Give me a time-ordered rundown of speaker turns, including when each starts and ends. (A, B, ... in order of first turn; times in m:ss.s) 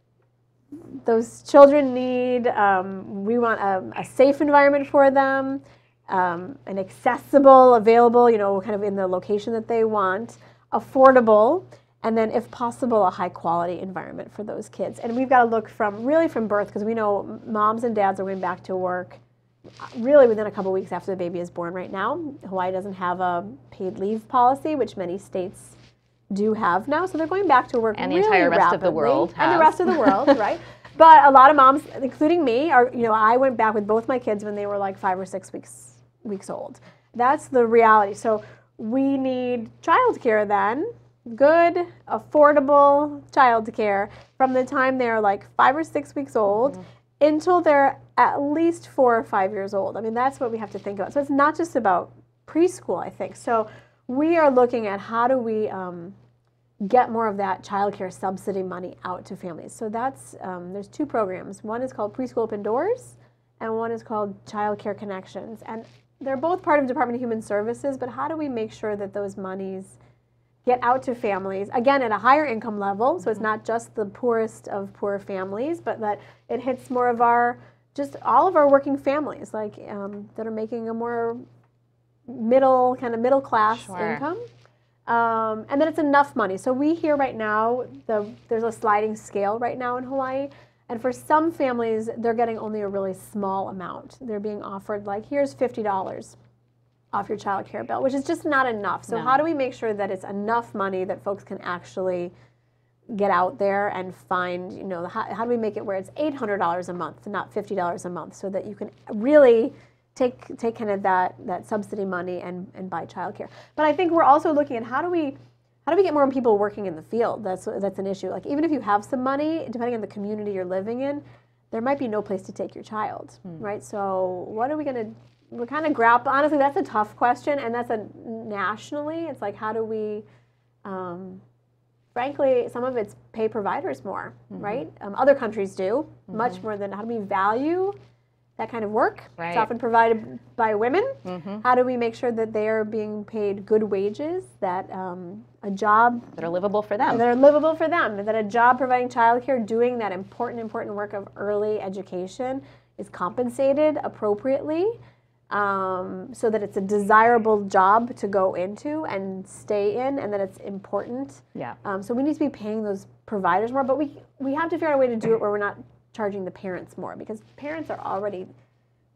0:00.7-0:19.2 A
0:19.8-0:25.8 A
0:26.3-0:56.2 A
0:28.0-0:30.1 B
0:56.8-1:10.0 A
1:10.6-1:21.4 A
1:22.3-1:24.5 A
1:23.8-1:24.2 B
1:25.1-1:36.4 A
1:37.1-1:42.3 A
1:39.1-1:39.4 B
1:43.1-2:10.3 A
2:10.8-2:11.4 A
2:12.1-2:18.0 A
2:14.5-2:14.8 B
2:18.6-2:26.4 A
2:19.4-2:19.7 B
2:21.2-2:21.6 B
2:26.4-2:27.2 B
2:27.1-2:35.0 A
2:35.5-2:48.5 A